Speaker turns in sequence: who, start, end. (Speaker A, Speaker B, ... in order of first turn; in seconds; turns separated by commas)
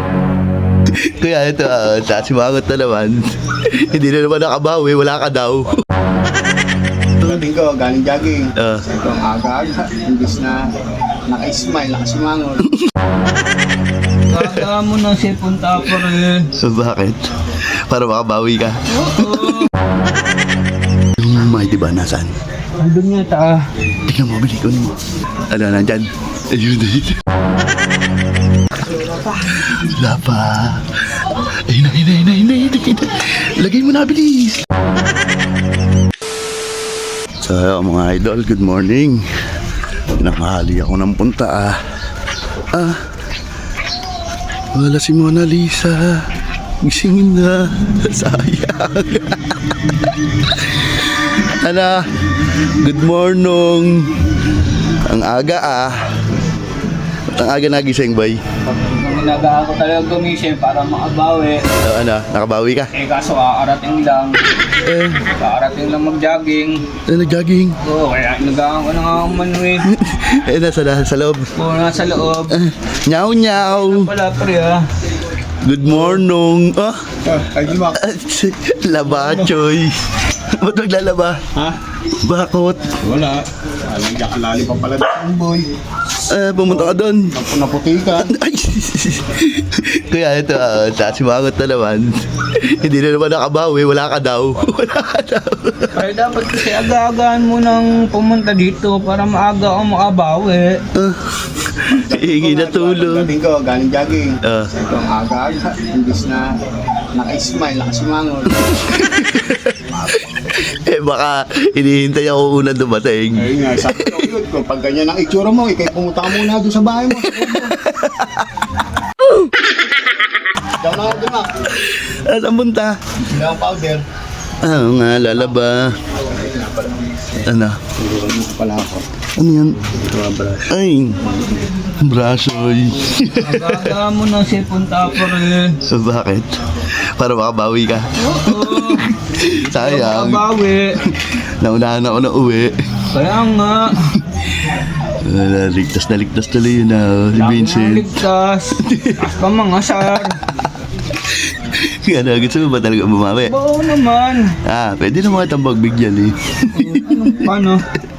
Speaker A: 1.0-5.8, Speaker B: 7.2-10.6, Speaker A: 8.6-8.8, Speaker B: 11.3-12.6, Speaker C: 14.3-16.5, Speaker A: 16.6-19.7, Speaker C: 18.9-19.7, Speaker A: 21.1-22.3, Speaker C: 22.8-23.7, Speaker A: 24.0-24.9, Speaker A: 25.5-27.2, Speaker C: 28.9-29.2, Speaker A: 29.3-34.7, Speaker A: 37.4-39.2, Speaker A: 40.1-41.8, Speaker A: 42.7-43.0, Speaker A: 44.7-46.2, Speaker A: 46.8-52.1, Speaker A: 52.6-56.0, Speaker A: 57.3-58.4, Speaker C: 58.7-61.7, Speaker A: 61.8-62.9, Speaker C: 62.9-64.4, Speaker A: 64.8-65.3, Speaker C: 65.2-66.8, Speaker A: 67.1-67.8, Speaker C: 67.8-69.9, Speaker A: 69.8-71.5, Speaker C: 71.5-72.6, Speaker A: 72.5-74.1, Speaker C: 73.7-74.9, Speaker A: 75.6-77.0, Speaker B: 77.2-78.0, Speaker A: 77.9-81.4, Speaker A: 82.2-83.0, Speaker B: 83.0-85.7, Speaker A: 86.2-87.3, Speaker B: 86.7-88.3, Speaker A: 88.2-96.0, Speaker C: 95.9-100.8, Speaker A: 100.9-103.3, Speaker B: 101.9-106.5, Speaker A: 104.4-104.7, Speaker B: 107.2-108.6, Speaker A: 108.5-114.2, Speaker B: 109.9-110.3, Speaker B: 113.3-117.8, Speaker A: 117.2-118.5, Speaker B: 120.8-121.5, Speaker A: 121.7-123.0, Speaker B: 123.2-124.0, Speaker A: 124.6-126.0, Speaker B: 126.1-127.0, Speaker A: 127.4-127.8, Speaker B: 128.0-129.0, Speaker A: 129.3-129.8, Speaker B: 129.9-130.6, Speaker A: 130.7-131.3, Speaker A: 131.8-134.0, Speaker C: 133.3-135.8, Speaker A: 135.8-140.5, Speaker C: 138.2-140.9, Speaker A: 141.0-143.1, Speaker C: 143.1-144.2, Speaker A: 145.0-148.2, Speaker C: 147.3-150.4, Speaker A: 148.8-149.2, Speaker A: 151.1-153.7, Speaker C: 153.4-154.6, Speaker A: 154.5-157.5, Speaker C: 156.7-157.8